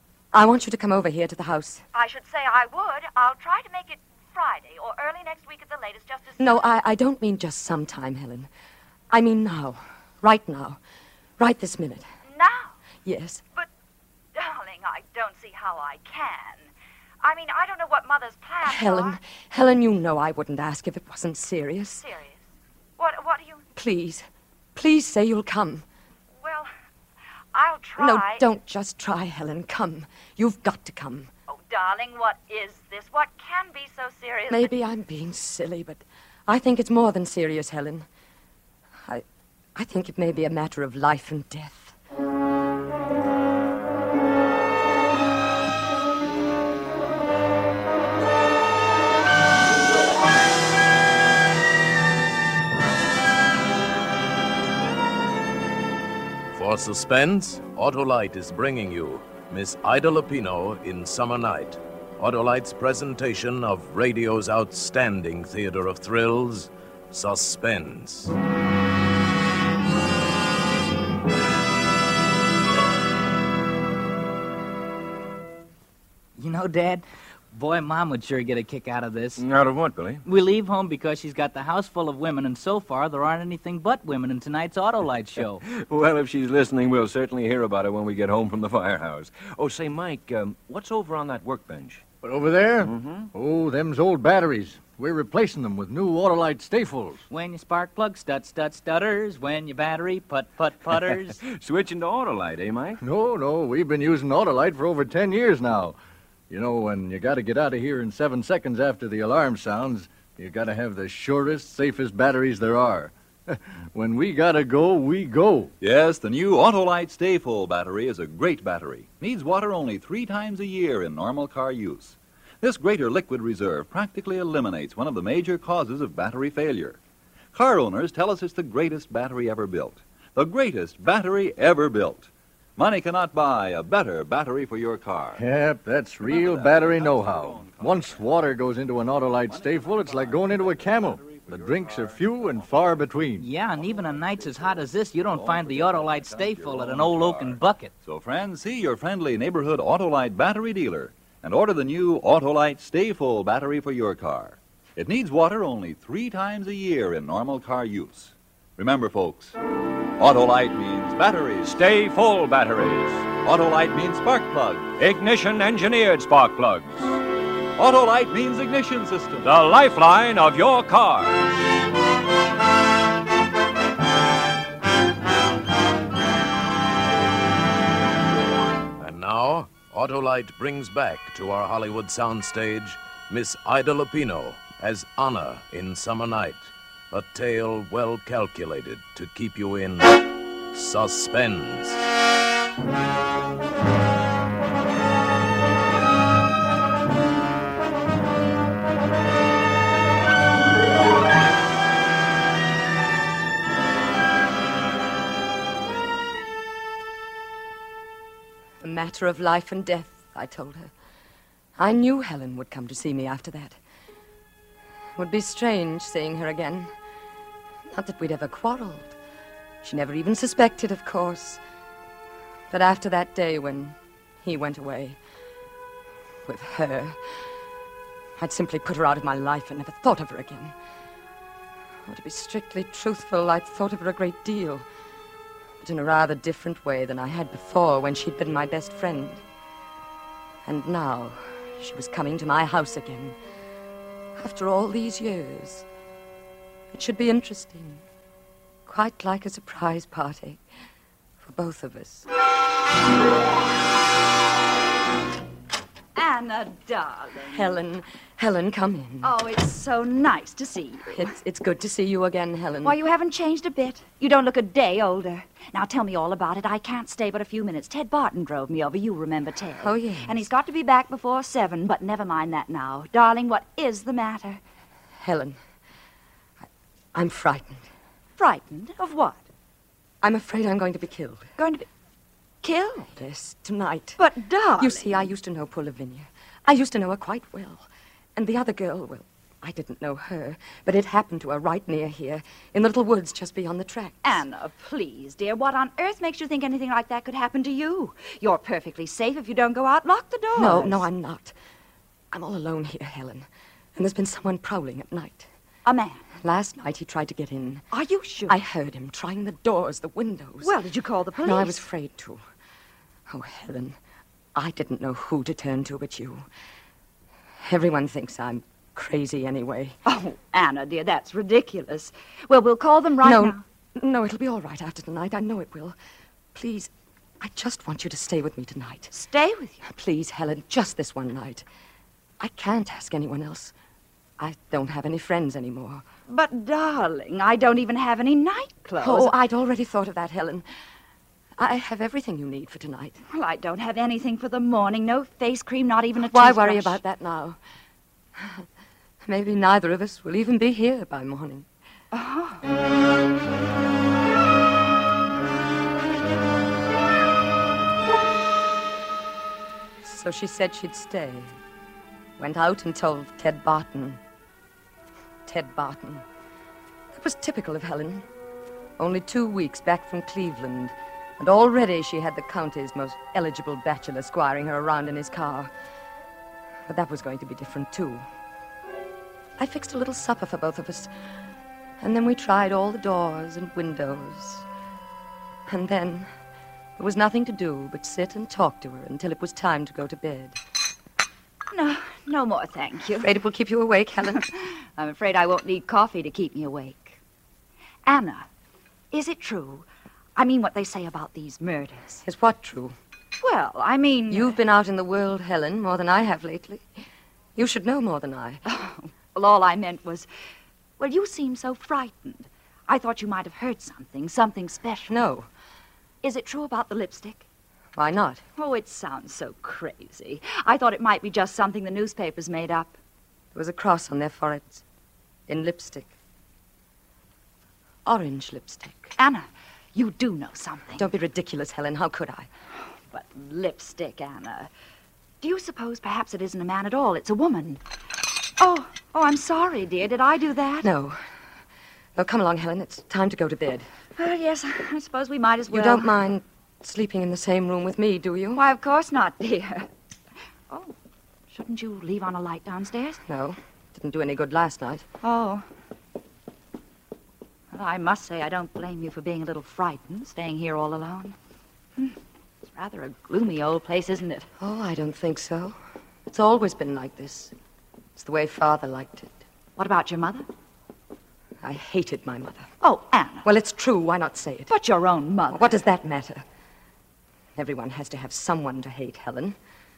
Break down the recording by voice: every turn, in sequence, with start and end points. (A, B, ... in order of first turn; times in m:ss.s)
0:00.3-0:01.8 A
0:01.9-0:06.6 B
0:06.4-0:08.5 A
0:09.1-0:10.8 A
0:11.4-0:12.0 A
0:12.2-0:12.8 B
0:13.0-0:13.4 A
0:14.3-0:16.7 B
0:17.2-0:19.2 B
0:18.6-0:22.0 A
0:22.0-0:23.6 B
0:23.7-0:25.8 A
0:26.3-0:26.7 B
0:27.5-0:28.4 B
0:28.0-0:31.3 A
0:31.5-0:34.7 B
0:34.5-0:38.1 A
0:39.8-0:41.9 A
0:56.5-1:08.3 C
1:16.4-1:19.4 D
1:19.4-1:20.2 E
1:20.2-1:25.6 D
1:25.6-1:32.0 E
1:32.2-1:37.2 F
1:32.8-1:33.3 E
1:37.3-1:41.4 D
1:40.9-1:43.0 E
1:43.0-1:46.0 F
1:46.5-1:55.7 F
1:55.8-2:07.0 G
2:07.5-2:15.4 G
2:15.4-2:23.5 F
2:16.2-2:18.5 G
2:19.4-2:39.5 G
2:23.4-2:27.9 D
2:40.2-2:41.8 G
2:41.6-2:43.3 E
2:43.4-2:44.9 G
2:45.0-2:47.2 E
2:47.8-2:49.5 G
2:49.4-2:51.5 E
2:59.0-3:12.1 C
3:28.8-3:30.9 A
3:31.8-3:33.8 A
3:35.2-3:36.9 A
3:37.9-3:39.2 A
3:39.8-3:41.6 A
3:42.7-3:45.2 A
3:46.4-3:47.2 A
3:48.4-3:50.7 A
3:52.0-3:54.8 A
3:55.8-3:59.4 A
4:00.6-4:03.4 A
4:04.4-4:05.8 A
4:06.9-4:08.0 A
4:08.8-4:10.6 A
4:11.4-4:12.3 A
4:16.1-4:17.8 B
4:17.5-4:19.3 A
4:19.2-4:21.3 B
4:21.1-4:23.0 A
4:22.8-4:34.6 B
4:29.8-4:30.5 A
4:35.2-4:35.6 A
4:37.1-4:37.9 A
4:38.4-4:39.5 B
4:40.2-4:41.5 A
4:41.6-4:41.9 B
4:42.6-4:43.1 B
4:43.1-4:44.2 A
4:44.2-4:45.3 B
4:44.8-4:54.4 A
4:54.2-5:01.0 B
5:00.5-5:01.5 A
5:02.3-5:05.5 A
5:05.8-5:06.2 B
5:06.4-5:07.8 A
5:07.9-5:08.6 B
5:08.5-5:10.8 A
5:10.6-5:11.8 B
5:11.4-5:12.4 A
5:13.3-5:14.0 A
5:14.5-5:16.4 A
5:17.6-5:20.0 A
5:20.0-5:23.6 B
5:23.2-5:26.0 A
5:26.5-5:29.1 A
5:29.1-5:29.8 B
5:29.8-5:31.6 A
5:32.4-5:33.7 A
5:34.4-5:36.0 A
5:36.3-5:39.3 B
5:39.0-5:40.6 A
5:41.6-5:43.2 A
5:43.3-5:47.0 B
5:46.2-5:47.6 A
5:48.4-5:48.6 A
5:49.2-5:51.6 A
5:52.1-5:52.6 B
6:00.0-6:01.5 A
6:02.4-6:04.2 A
6:05.4-6:06.2 A
6:07.1-6:08.2 A
6:09.0-6:15.7 A
6:16.9-6:18.2 A
6:19.6-6:21.1 A
6:22.0-6:24.6 A
6:25.7-6:26.3 A
6:27.0-6:30.6 A
6:31.7-6:33.3 B
6:33.2-6:34.4 A
6:34.4-6:37.2 B
6:38.0-6:38.5 B
6:39.1-6:42.2 B
6:42.2-6:43.0 A
6:43.4-6:44.6 B
6:44.3-6:46.9 A
6:47.6-6:48.6 A
6:48.6-6:50.3 B
6:51.0-6:55.2 B
6:55.1-6:55.5 A
6:56.2-6:57.4 B
6:57.9-6:58.4 A
6:58.6-7:03.0 B
7:03.5-7:04.8 A
7:05.5-7:06.1 A
7:08.0-7:09.1 A
7:09.2-7:11.1 B
7:11.0-7:12.5 A
7:13.1-7:14.7 B
7:15.4-7:17.8 B
7:18.6-7:20.9 B
7:20.8-7:21.2 A
7:22.2-7:23.9 A
7:24.2-7:26.1 B
7:25.7-7:28.6 A
7:28.5-7:29.9 B
7:31.5-7:33.2 B
7:33.3-7:35.0 A
7:35.2-7:35.6 B
7:37.7-7:41.4 B
7:42.7-7:44.5 B
7:44.6-7:45.8 A
7:46.3-7:47.5 A
7:48.2-7:49.4 A
7:49.8-7:50.4 B
7:51.6-7:52.7 A
7:52.8-7:53.5 B
7:53.4-7:54.7 A
7:54.7-7:55.8 B
7:55.5-7:56.4 A
7:57.6-7:59.6 A